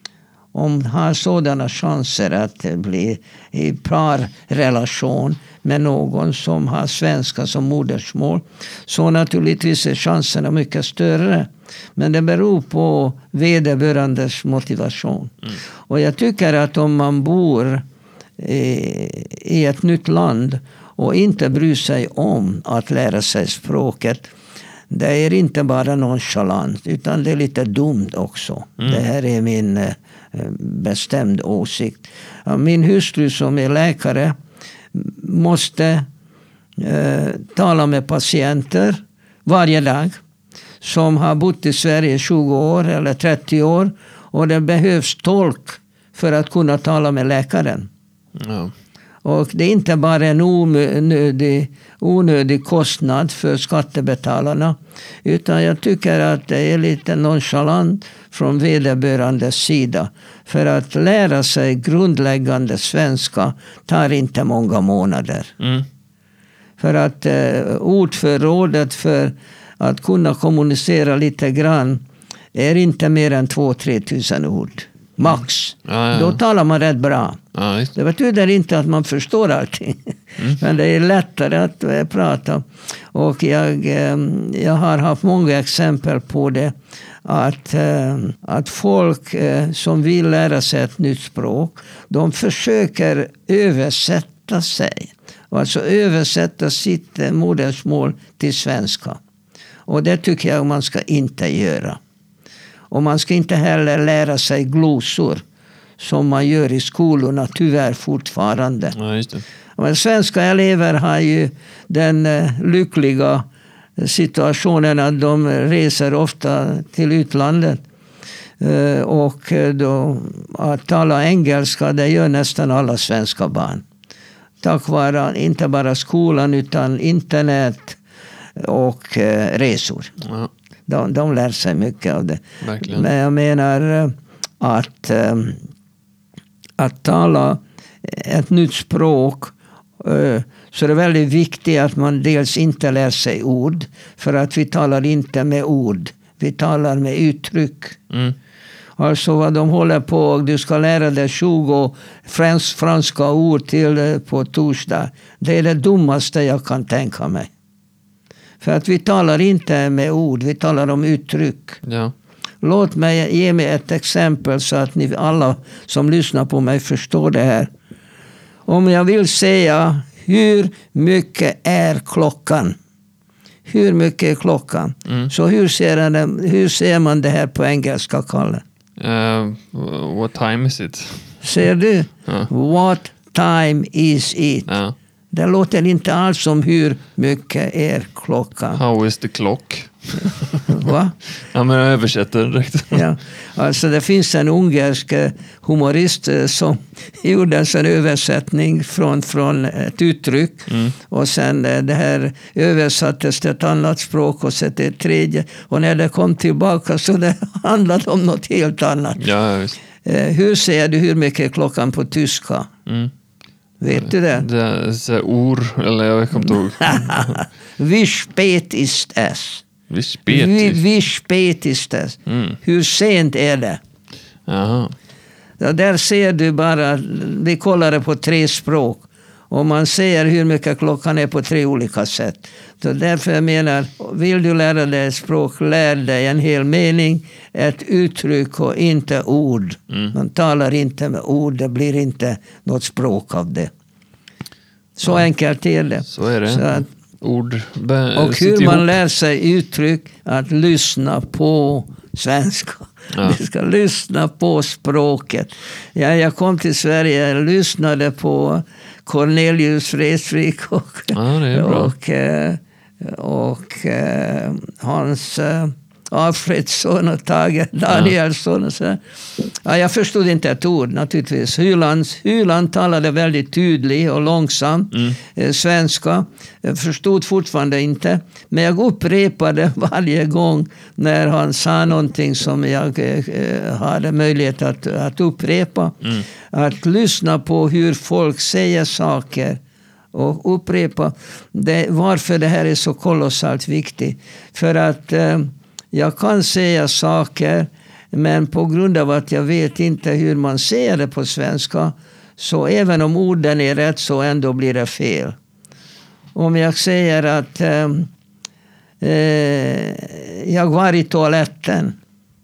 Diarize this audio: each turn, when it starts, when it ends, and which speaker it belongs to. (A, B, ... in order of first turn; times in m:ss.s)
0:00.5-0:15.3 A
0:15.9-0:17.8 A
0:18.4-0:24.3 A
0:24.9-0:34.3 A
0:28.8-0:29.0 B
0:34.9-0:36.0 A
0:36.8-0:40.2 A
0:40.8-0:47.9 A
0:48.4-0:48.7 B
0:49.2-1:05.5 A
1:05.6-1:05.8 B
1:06.8-1:12.0 A
1:12.5-1:17.4 A
1:15.8-1:16.4 B
1:17.5-1:17.9 B
1:17.9-1:39.2 A
1:39.9-1:42.0 A
1:42.9-1:45.4 A
1:46.0-1:49.0 A
1:48.9-1:49.4 B
1:49.8-1:53.4 A
1:54.0-1:57.8 A
1:58.6-2:03.8 A
2:04.6-2:08.0 A
2:08.6-2:10.1 A
2:10.2-2:10.5 B
2:10.9-2:15.6 A
2:12.6-2:13.1 B
2:16.8-2:28.0 A
2:28.1-2:28.3 B
2:29.0-2:37.5 A
2:38.6-2:41.8 A
2:41.8-2:42.1 B
2:42.6-2:47.7 A
2:48.7-2:52.7 A
2:53.7-2:58.6 A
2:59.0-3:01.4 B
3:01.4-3:04.7 A
3:04.7-3:04.9 B
3:05.3-3:08.8 A
3:08.7-3:13.0 B
3:10.6-3:11.2 A
3:12.9-3:29.2 A
3:20.7-3:20.9 B
3:29.2-3:29.8 B
3:30.0-3:32.7 A
3:32.9-3:33.1 B
3:33.8-3:34.4 A
3:33.9-3:37.4 B
3:36.8-3:39.6 A
3:39.9-3:40.8 B
3:40.3-3:43.8 A
3:42.3-3:42.6 B
3:44.4-3:44.9 B
3:45.6-4:03.7 A
4:05.0-4:06.9 A
4:06.1-4:09.0 B
4:08.1-4:49.6 A
4:13.1-4:13.4 B
4:21.1-4:21.9 B
4:34.9-4:35.2 B
4:50.1-5:05.3 A
5:06.3-5:08.1 A
5:09.0-5:12.0 A